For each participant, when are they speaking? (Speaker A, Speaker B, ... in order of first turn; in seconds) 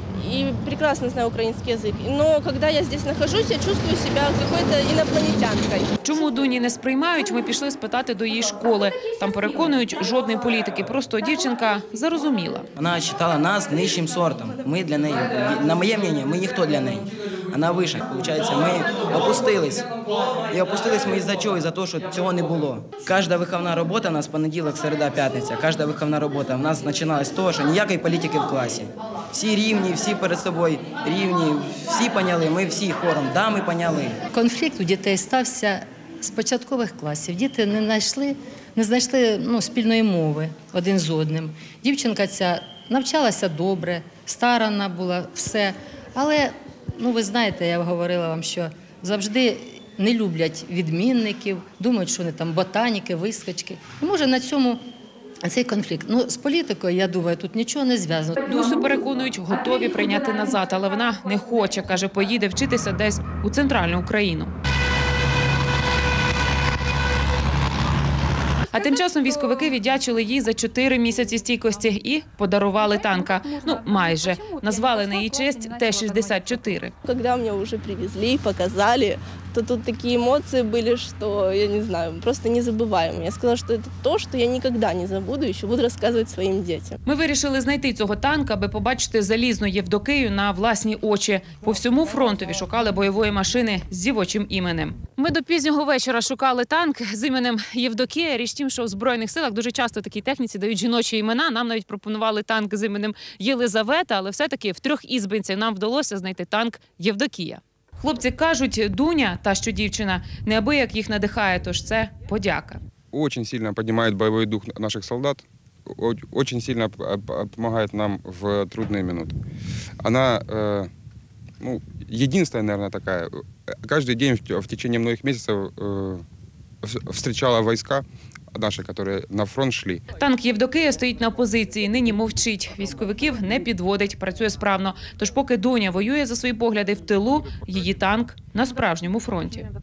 Speaker A: 0.1-5.9, 77.1-87.0
Speaker B: 6.0-12.7, 58.4-64.5, 68.7-76.9, 87.0-112.8, 130.2-139.7
Speaker C: 12.8-19.9, 20.5-34.2
Speaker D: 34.3-54.8, 55.4-58.7
Speaker E: 113.1-119.3, 120.0-120.9, 121.6-126.2, 126.8-130.0